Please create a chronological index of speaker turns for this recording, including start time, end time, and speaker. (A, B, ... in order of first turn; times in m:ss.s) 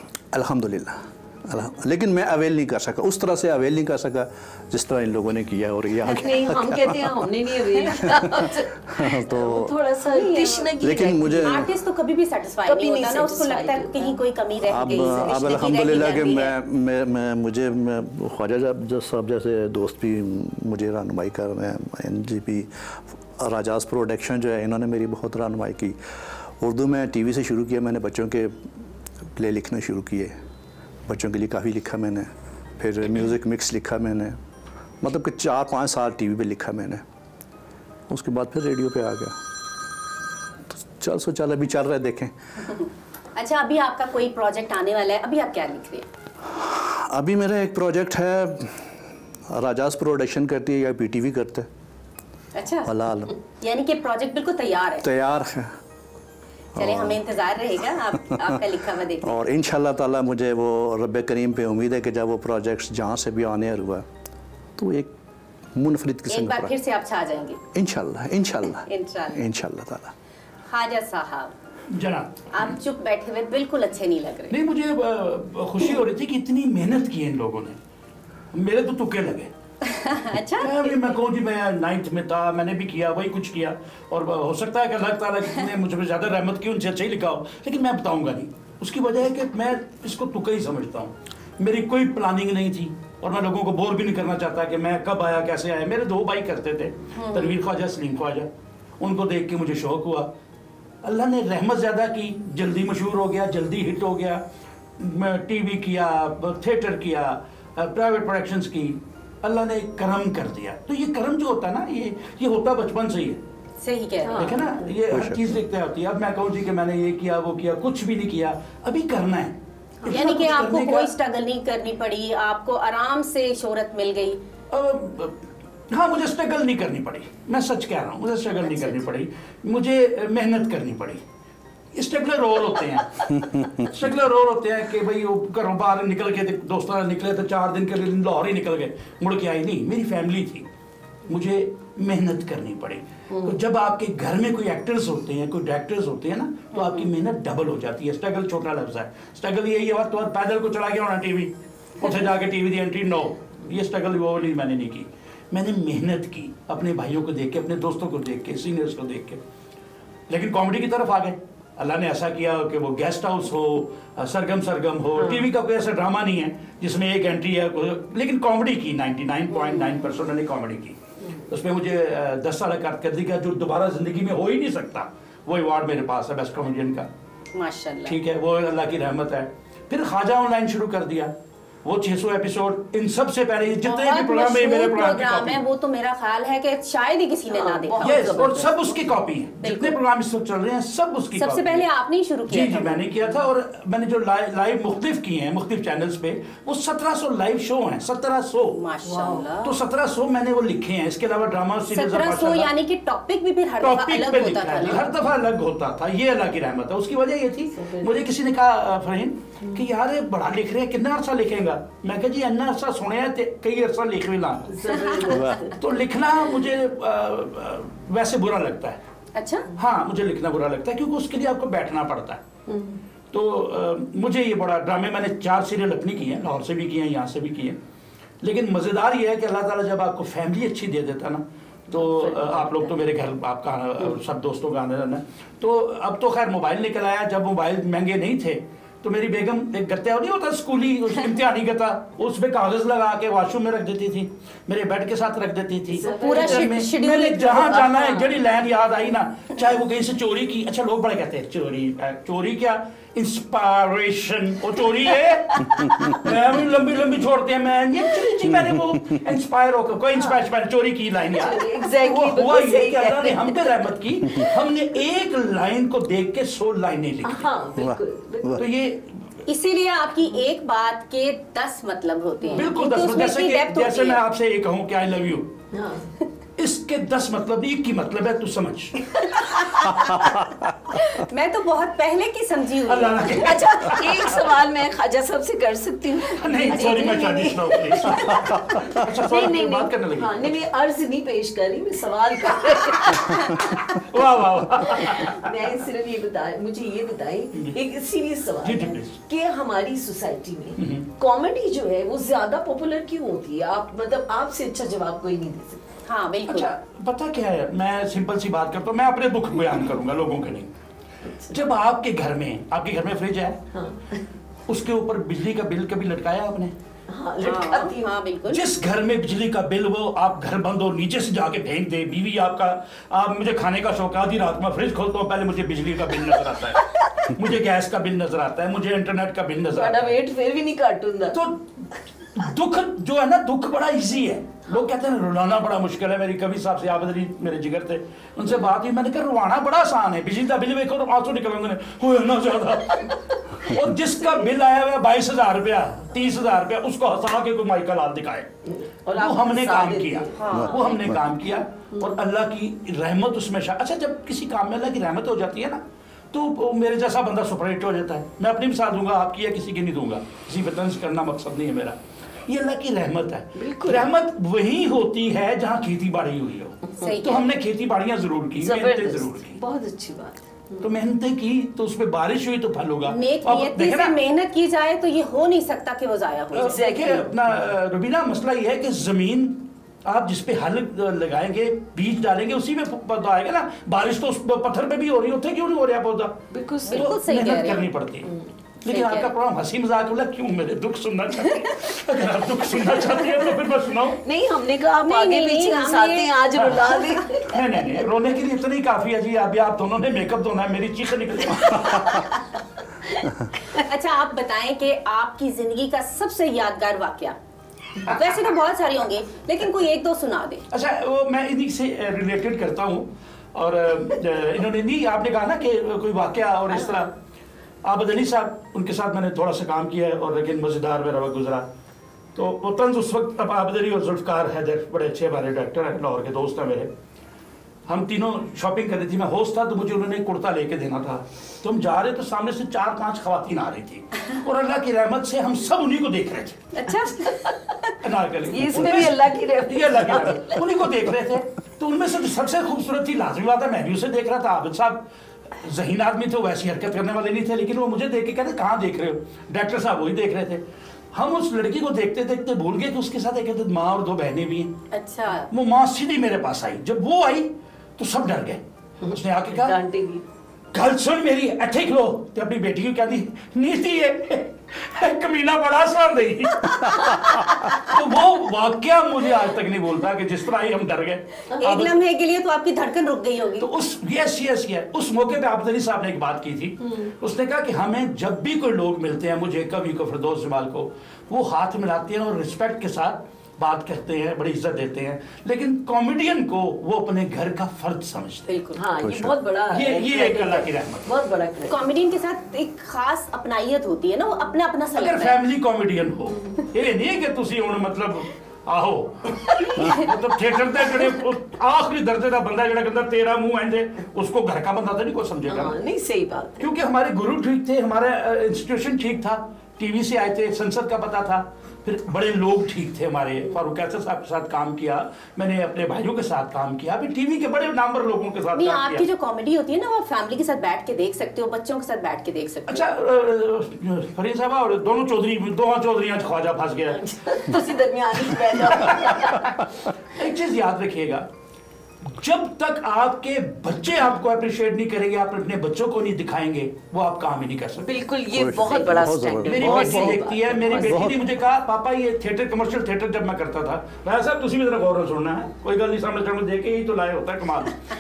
0:00.3-0:07.2 A
0:06.0-0:11.7 B
0:07.8-0:09.7 A
0:10.1-0:10.7 C
0:10.8-0:11.7 A
0:11.4-0:16.5 C
0:12.7-0:14.2 B
0:14.6-0:26.0 A
0:14.8-0:15.4 B
0:26.6-0:28.7 A
0:29.3-0:30.4 A
0:31.0-0:34.4 A
0:35.0-0:37.0 A
0:38.1-0:39.4 A
0:40.7-0:42.7 A
0:42.7-0:46.1 C
0:46.4-0:49.0 A
0:49.5-0:51.7 A
0:52.6-0:52.9 C
0:52.8-0:53.4 A
0:53.5-0:55.1 C
0:55.0-0:55.8 A
0:56.8-0:57.2 A
0:56.8-0:59.4 C
0:58.2-0:58.6 A
0:59.2-1:04.1 A
1:04.8-1:05.1 A
1:05.7-1:06.7 A
1:06.3-1:07.6 C
1:07.7-1:10.1 A
1:08.9-1:09.4 C
1:10.7-1:11.5 C
1:11.9-1:12.8 D
1:12.5-1:14.6 C
1:14.5-1:17.8 D
1:18.5-1:19.5 D
1:19.8-1:21.0 C
1:20.6-1:38.5 D
1:37.2-1:37.6 C
1:39.0-1:40.3 D
1:41.0-1:44.4 D
1:45.0-1:53.4 D
1:53.8-1:54.7 C
1:54.2-1:54.8 B
1:54.4-1:59.5 D
1:55.1-1:55.6 A
2:00.1-2:01.1 D
2:00.1-2:04.4 C
2:04.7-2:05.4 D
2:05.9-2:11.2 D
2:08.6-2:09.0 C
2:12.0-2:20.7 D
2:13.4-2:13.9 A
2:21.3-2:39.4 D
2:26.8-2:27.1 C
2:40.3-2:57.1 D
2:45.2-2:45.5 B
2:57.5-2:58.2 C
2:58.1-3:01.3 D
3:01.8-3:05.6 D
3:03.8-3:08.3 C
3:07.5-3:09.0 B
3:08.0-3:11.9 D
3:09.6-3:10.0 C
3:11.4-3:13.1 C
3:12.5-3:18.8 D
3:18.7-3:19.8 C
3:19.0-3:19.5 B
3:19.6-3:22.7 D
3:21.9-3:25.1 C
3:23.8-3:34.9 D
3:27.8-3:28.1 B
3:34.7-3:35.8 B
3:34.9-3:35.3 C
3:35.3-3:35.7 A
3:35.7-3:39.0 D
3:39.4-3:39.7 C
3:39.7-3:42.4 D
3:42.7-3:43.0 B
3:43.3-3:47.8 D
3:48.4-4:27.5 D
3:52.0-3:52.8 B
4:05.9-4:06.8 B
4:06.0-4:08.3 C
4:15.6-4:16.2 C
4:18.5-4:19.1 A
4:21.3-4:23.9 B
4:27.2-4:28.6 B
4:27.8-4:28.6 A
4:28.6-4:29.4 D
4:29.5-4:34.2 C
4:32.5-4:35.5 D
4:35.7-4:36.2 B
4:36.6-4:39.1 D
4:39.2-4:40.4 C
4:40.9-4:43.8 C
4:42.8-4:44.4 D
4:43.2-4:53.7 B
4:46.3-4:50.6 D
4:46.7-4:47.4 C
4:53.9-4:55.5 D
4:54.9-5:05.8 B
4:58.6-4:59.2 D
5:00.8-5:01.1 D
5:06.1-5:06.7 C
5:06.5-5:10.7 D
5:11.2-5:11.6 B
5:11.5-5:13.6 D
5:13.7-5:14.2 B
5:14.7-5:16.7 D
5:17.1-5:18.1 B
5:17.4-5:18.6 C
5:18.5-5:30.2 D
5:29.7-5:31.4 B
5:31.3-5:31.6 D
5:32.3-5:48.5 D
5:48.6-5:50.4 B
5:49.2-5:55.8 D
5:50.4-5:51.0 C
5:50.5-5:51.2 A
5:56.3-6:09.6 D
6:03.6-6:04.1 B
6:06.9-6:07.2 B
6:07.0-6:07.5 C
6:08.6-6:10.9 B
6:10.8-6:14.2 D
6:13.0-6:16.9 C
6:16.5-6:17.3 B
6:16.6-6:28.3 D
6:26.5-6:27.1 B
6:26.9-6:27.9 C
6:28.8-6:34.2 D
6:28.9-6:29.3 C
6:34.2-6:37.6 B
6:35.0-6:37.0 C
6:36.6-6:42.4 D
6:43.7-6:47.4 C
6:48.0-6:50.6 C
6:50.7-6:57.1 D
6:57.8-7:01.7 D
7:02.4-7:06.9 D
7:07.9-7:16.8 D
7:16.7-7:17.4 C
7:17.1-7:17.6 B
7:18.0-7:25.0 D
7:18.5-7:20.6 B
7:25.6-7:34.7 D
7:34.9-7:35.5 C
7:35.5-7:39.8 D
7:39.0-7:40.2 B
7:40.7-7:52.0 D
7:51.6-7:53.7 C
7:53.6-8:08.5 D
8:08.5-8:08.8 C
8:08.8-8:11.8 B
8:09.0-8:09.3 A
8:09.7-8:11.1 D
8:11.7-8:15.4 C
8:14.9-8:25.8 D
8:19.5-8:20.1 C
8:25.5-8:26.7 B
8:26.6-8:39.0 D
8:38.5-8:42.9 C
8:42.7-8:47.6 D
8:47.0-8:49.6 B
8:48.6-8:49.5 D
8:50.0-8:51.3 D
8:52.1-8:58.0 D
8:57.8-9:01.1 B
8:58.4-9:01.2 A
8:59.4-9:07.8 D